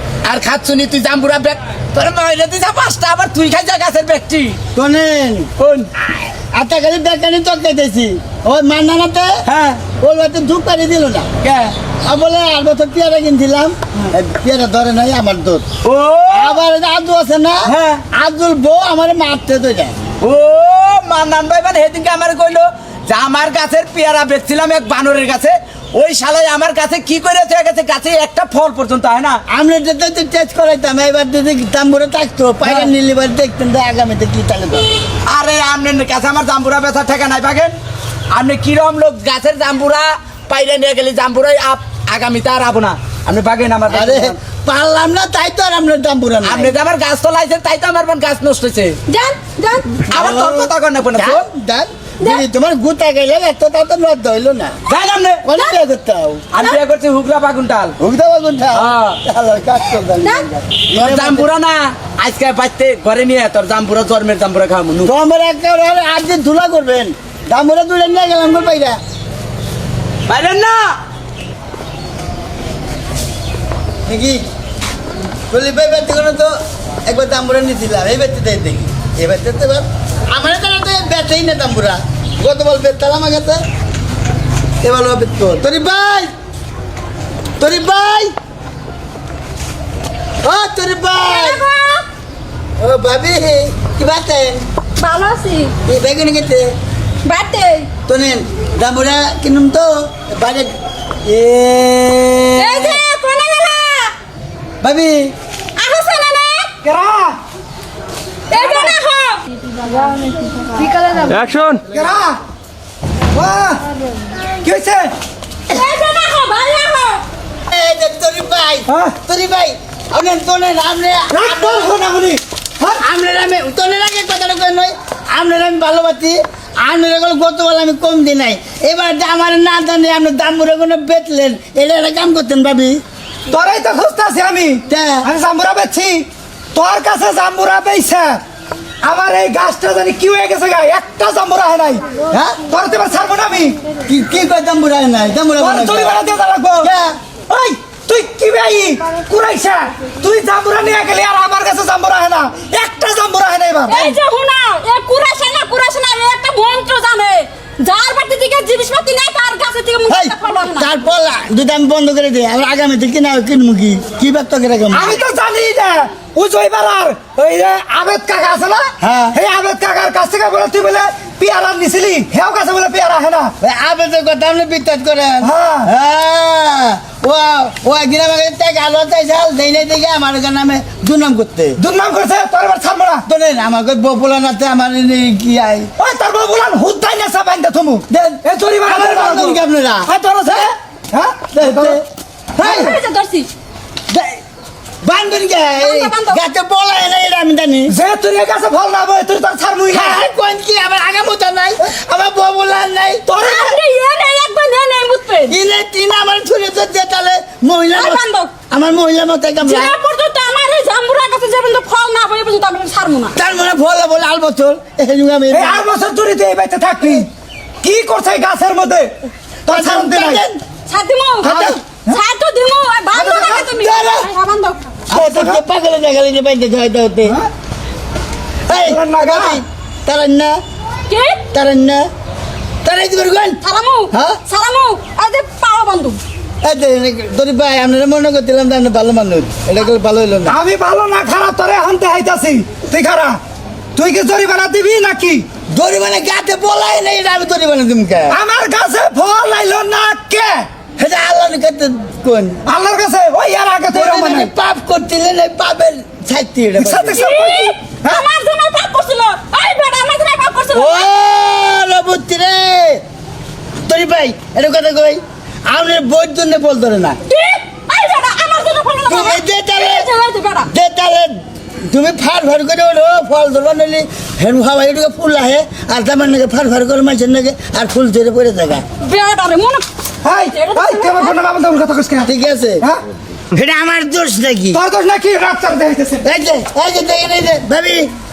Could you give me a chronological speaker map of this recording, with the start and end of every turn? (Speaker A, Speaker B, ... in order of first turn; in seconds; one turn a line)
Speaker A: 0.2-4.6
Speaker B: 4.8-5.5
Speaker A: 5.6-5.9
Speaker B: 6.5-9.4
Speaker A: 9.5-9.8
Speaker B: 10.0-11.3
Speaker A: 11.4-11.7
Speaker B: 12.0-15.7
Speaker A: 15.8-16.6
Speaker B: 16.3-20.0
Speaker A: 17.7-18.0
Speaker A: 20.2-29.4
Speaker B: 29.5-34.9
Speaker A: 32.6-32.9
Speaker A: 35.3-37.7
Speaker A: 38.3-44.4
Speaker B: 43.9-46.8
Speaker A: 46.4-49.0
Speaker C: 49.1-50.1
Speaker B: 50.1-54.8
Speaker A: 50.1-51.5
Speaker A: 54.9-55.4
Speaker B: 55.4-56.5
Speaker A: 56.5-58.0
Speaker B: 58.0-61.5
Speaker A: 58.7-59.2
Speaker A: 60.9-65.1
Speaker B: 65.0-69.0
Speaker A: 70.3-71.0
Speaker B: 74.1-74.4
Speaker B: 75.5-76.5
Speaker B: 77.1-83.6
Speaker B: 84.8-86.3
Speaker B: 87.6-88.3
Speaker B: 90.4-91.7
Speaker C: 91.3-92.1
Speaker B: 92.8-94.6
Speaker C: 95.0-95.7
Speaker B: 95.9-96.7
Speaker C: 97.2-97.9
Speaker B: 98.1-100.7
Speaker B: 101.2-103.0
Speaker C: 102.6-104.1
Speaker B: 104.8-105.3
Speaker C: 105.8-106.7
Speaker D: 106.8-107.4
Speaker C: 108.5-109.4
Speaker D: 108.5-109.0
Speaker D: 111.8-112.4
Speaker D: 113.3-113.8
Speaker D: 114.6-115.1
Speaker C: 115.7-117.2
Speaker B: 117.7-121.9
Speaker D: 118.9-119.2
Speaker D: 121.3-123.0
Speaker B: 123.0-133.0
Speaker D: 133.5-138.4
Speaker B: 134.9-135.3
Speaker D: 139.0-142.1
Speaker B: 142.3-142.6
Speaker D: 142.7-143.8
Speaker B: 144.1-146.2
Speaker D: 145.6-146.9
Speaker B: 146.8-147.2
Speaker D: 147.5-154.2
Speaker C: 153.9-161.0
Speaker B: 160.1-165.2
Speaker D: 164.9-173.5
Speaker B: 169.0-169.4
Speaker B: 173.6-181.8
Speaker D: 175.4-175.9
Speaker D: 181.8-183.2
Speaker B: 183.3-185.9
Speaker D: 186.0-192.0
Speaker B: 188.1-190.1
Speaker B: 191.5-192.1
Speaker B: 192.6-192.9
Speaker C: 192.6-193.5
Speaker D: 192.6-192.9
Speaker B: 194.1-194.4
Speaker B: 195.0-197.9
Speaker C: 195.8-196.4
Speaker D: 197.9-200.3
Speaker B: 199.9-203.3
Speaker D: 203.3-203.8
Speaker C: 203.4-205.6
Speaker B: 205.5-209.9
Speaker C: 207.9-208.5
Speaker C: 209.6-213.4
Speaker B: 213.4-215.8
Speaker D: 215.5-217.3
Speaker D: 217.8-219.2
Speaker D: 219.7-220.4
Speaker B: 219.7-220.6
Speaker C: 220.9-224.8
Speaker D: 221.4-222.2
Speaker B: 221.4-221.8
Speaker D: 223.1-224.2
Speaker B: 225.1-227.4
Speaker D: 225.1-225.6
Speaker D: 228.7-229.6
Speaker B: 228.7-230.6
Speaker C: 231.1-231.4
Speaker B: 231.5-232.1
Speaker B: 232.8-233.6
Speaker C: 233.6-236.2
Speaker B: 234.1-234.4
Speaker B: 236.6-240.6
Speaker D: 240.5-243.4
Speaker D: 244.0-245.4
Speaker B: 245.7-248.4
Speaker D: 248.3-250.7
Speaker B: 251.0-252.6
Speaker D: 252.7-254.5
Speaker B: 253.9-257.2
Speaker D: 256.8-258.2
Speaker C: 257.1-261.1
Speaker B: 260.7-263.0
Speaker B: 263.9-267.2
Speaker C: 267.3-270.7
Speaker B: 269.1-270.1
Speaker B: 270.7-278.8
Speaker C: 279.0-279.9
Speaker D: 280.2-282.3
Speaker C: 280.5-281.4
Speaker B: 282.2-282.9
Speaker B: 283.5-284.8
Speaker D: 284.7-286.3
Speaker B: 286.2-288.1